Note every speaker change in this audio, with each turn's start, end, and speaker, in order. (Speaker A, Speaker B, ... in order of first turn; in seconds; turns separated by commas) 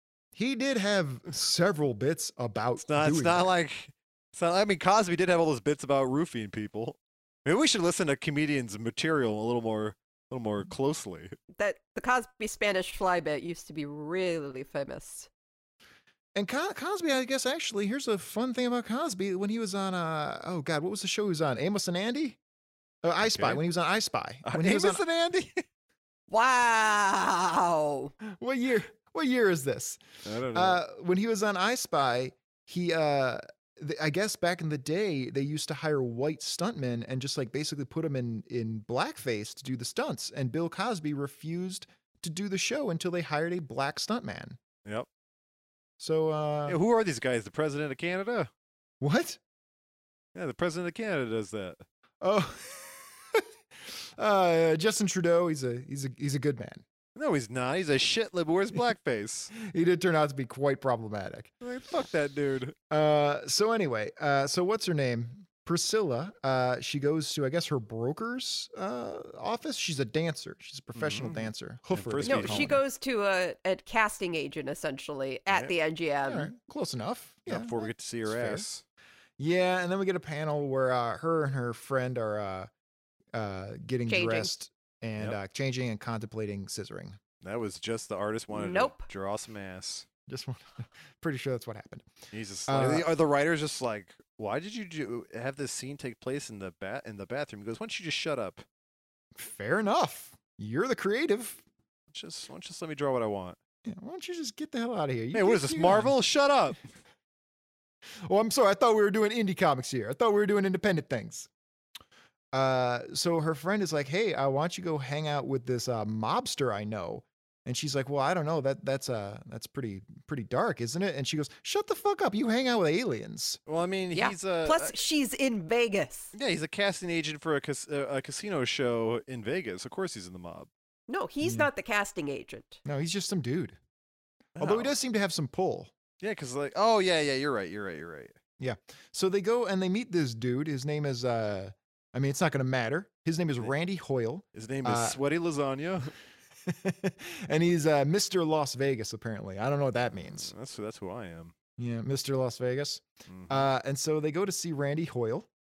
Speaker A: 0.3-3.5, Speaker B: 2.8-11.3, Speaker C: 11.6-15.3, Speaker A: 16.4-22.4, Speaker A: 23.0-25.0, Speaker B: 23.2-23.6, Speaker B: 24.4-25.6, Speaker C: 26.3-28.1, Speaker A: 28.3-30.0, Speaker B: 30.2-30.8, Speaker A: 30.5-44.6, Speaker A: 46.0-46.8, Speaker B: 46.7-48.5, Speaker A: 49.0-49.4, Speaker B: 50.4-51.8, Speaker A: 52.2-56.8, Speaker B: 57.2-59.5, Speaker A: 59.5-61.5, Speaker B: 61.6-62.8, Speaker A: 62.9-72.8, Speaker B: 70.9-72.8, Speaker C: 72.2-76.5, Speaker A: 76.2-78.7, Speaker B: 77.5-78.8, Speaker A: 79.4-82.7, Speaker A: 83.3-87.2, Speaker C: 84.1-84.5, Speaker B: 87.4-90.1, Speaker C: 88.5-89.0, Speaker A: 90.3-92.1, Speaker B: 92.3-98.6, Speaker A: 92.7-93.1, Speaker A: 99.4-101.6, Speaker B: 102.1-103.6, Speaker A: 103.8-106.1, Speaker B: 105.3-106.8, Speaker A: 108.2-111.5, Speaker A: 112.5-123.6, Speaker B: 123.7-125.0, Speaker C: 124.2-126.3, Speaker B: 126.3-130.7, Speaker C: 131.1-132.8, Speaker A: 131.4-131.7, Speaker A: 132.8-133.8, Speaker B: 134.6-134.9, Speaker A: 134.6-135.9, Speaker B: 136.2-138.3, Speaker A: 138.6-145.2, Speaker B: 144.5-146.1, Speaker A: 146.7-150.5, Speaker B: 150.3-151.6, Speaker A: 151.8-155.5, Speaker B: 153.3-153.7